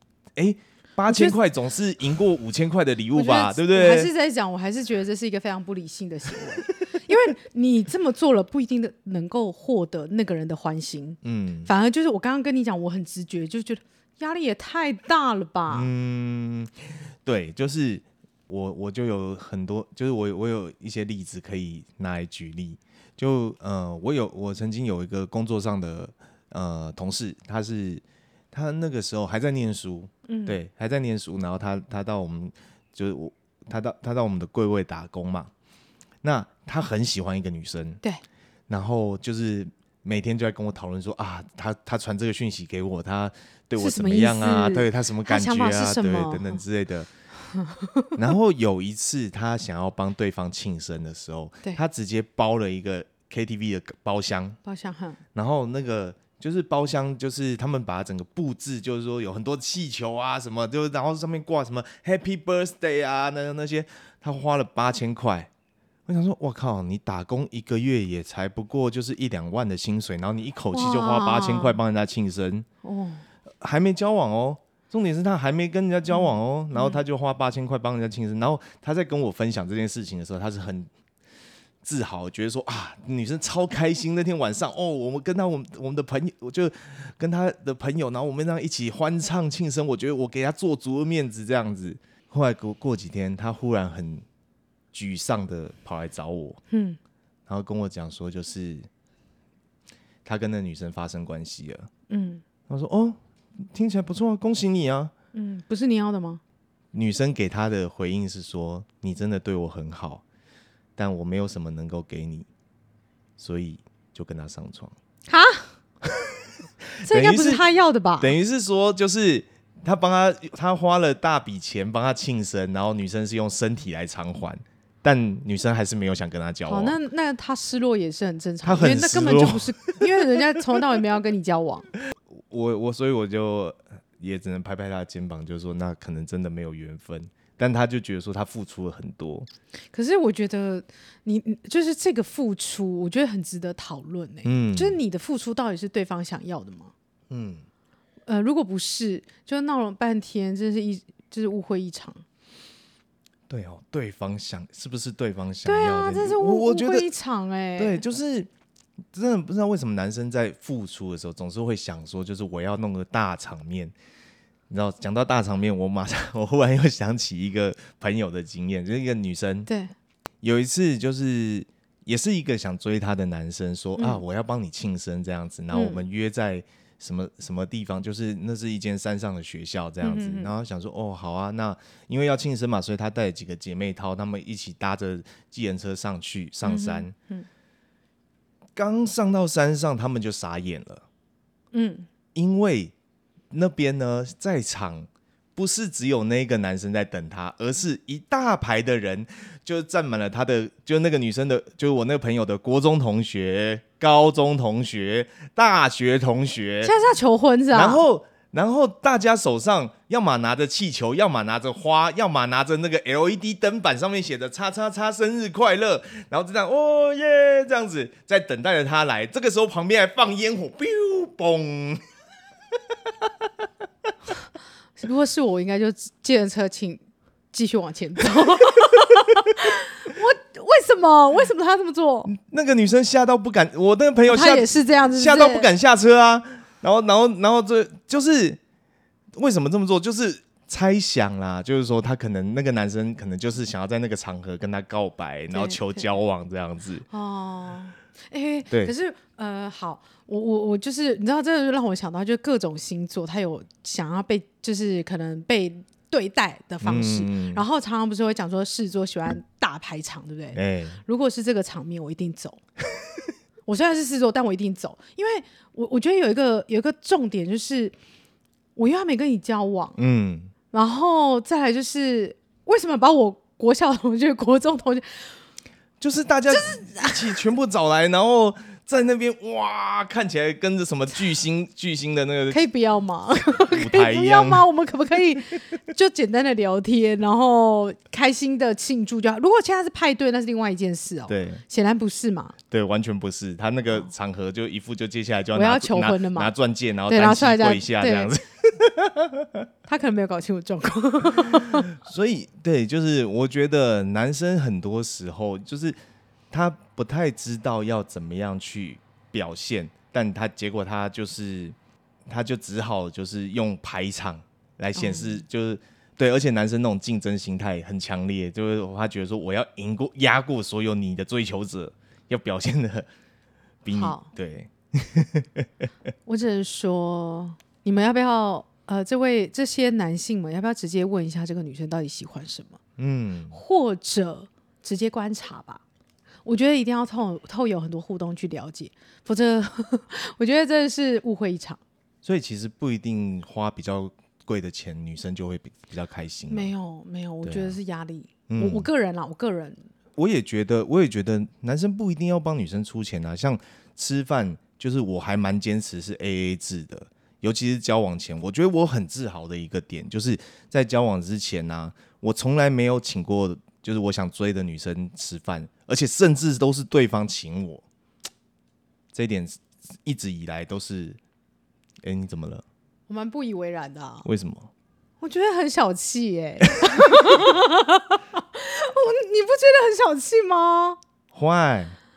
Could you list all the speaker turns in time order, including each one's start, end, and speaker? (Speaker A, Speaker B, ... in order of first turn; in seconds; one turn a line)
Speaker A: 0.3-4.1
Speaker B: 1.1-1.4
Speaker B: 3.1-15.9
Speaker A: 11.2-11.7
Speaker A: 15.7-35.5
Speaker B: 30.3-30.6
Speaker A: 36.2-38.0
Speaker A: 38.7-47.1
Speaker B: 43.8-46.6
Speaker B: 47.5-48.2
Speaker A: 48.1-54.6
Speaker B: 54.6-55.2
Speaker A: 55.3-65.5
Speaker A: 66.1-72.7
Speaker B: 70.7-71.8
Speaker B: 72.8-73.2
Speaker A: 73.6-80.9
Speaker B: 76.1-77.0
Speaker A: 81.8-94.2
Speaker A: 94.9-96.6
Speaker B: 96.7-97.0
Speaker A: 97.5-98.9
Speaker A: 100.2-101.9
Speaker B: 102.1-102.4
Speaker A: 102.7-105.1
Speaker B: 105.3-106.4
Speaker A: 106.9-110.2
Speaker A: 111.0-112.5
Speaker A: 113.4-114.9
Speaker B: 115.3-115.7
Speaker A: 116.0-116.3
Speaker A: 117.0-117.6
Speaker B: 117.0-118.3
Speaker A: 118.2-127.0
Speaker B: 126.7-131.9
Speaker A: 128.6-130.4
Speaker A: 132.3-139.5
Speaker B: 139.9-146.9
Speaker A: 144.4-145.0
Speaker A: 147.3-147.6
Speaker B: 148.3-152.2
Speaker A: 153.5-157.1
Speaker B: 155.6-158.0
Speaker A: 157.8-158.5
Speaker A: 159.1-163.9
Speaker A: 164.7-169.7
Speaker B: 169.7-169.9
Speaker A: 170.4-187.1
Speaker B: 174.0-174.2
Speaker B: 175.7-176.0
Speaker B: 180.0-180.5
Speaker B: 186.6-187.5
Speaker A: 188.8-191.0
Speaker B: 191.7-192.1
Speaker A: 192.3-192.9
Speaker A: 193.5-206.9
Speaker B: 206.8-208.0
Speaker A: 207.7-222.0
Speaker B: 225.0-227.0
Speaker B: 227.5-232.3
Speaker A: 232.3-238.6
Speaker B: 234.3-235.7
Speaker A: 239.3-247.1
Speaker B: 245.5-245.8
Speaker B: 247.1-262.6
Speaker A: 256.8-257.6
Speaker A: 260.5-261.0
Speaker B: 263.6-267.9
Speaker B: 268.8-270.0
Speaker A: 270.0-270.5
Speaker B: 270.7-275.3
Speaker A: 276.0-282.6
Speaker B: 276.5-277.3
Speaker B: 282.5-292.6
Speaker A: 283.7-284.7
Speaker A: 291.3-291.6
Speaker A: 292.7-299.6
Speaker B: 295.5-296.5
Speaker B: 297.1-298.3
Speaker B: 299.9-301.9
Speaker A: 301.4-305.9
Speaker A: 306.5-311.8
Speaker A: 312.3-323.1
Speaker B: 314.9-315.4
Speaker A: 323.8-325.9
Speaker B: 323.9-324.3
Speaker B: 326.2-332.8
Speaker A: 333.0-333.6
Speaker B: 333.5-335.8
Speaker B: 336.4-341.8
Speaker A: 342.2-346.7
Speaker B: 346.5-349.8
Speaker A: 347.4-347.8
Speaker A: 348.5-348.9
Speaker A: 350.2-367.8
Speaker A: 369.1-371.2
Speaker A: 372.0-372.6
Speaker B: 373.1-374.3
Speaker A: 374.2-374.7
Speaker B: 375.2-381.0
Speaker A: 376.8-377.2
Speaker A: 381.3-382.0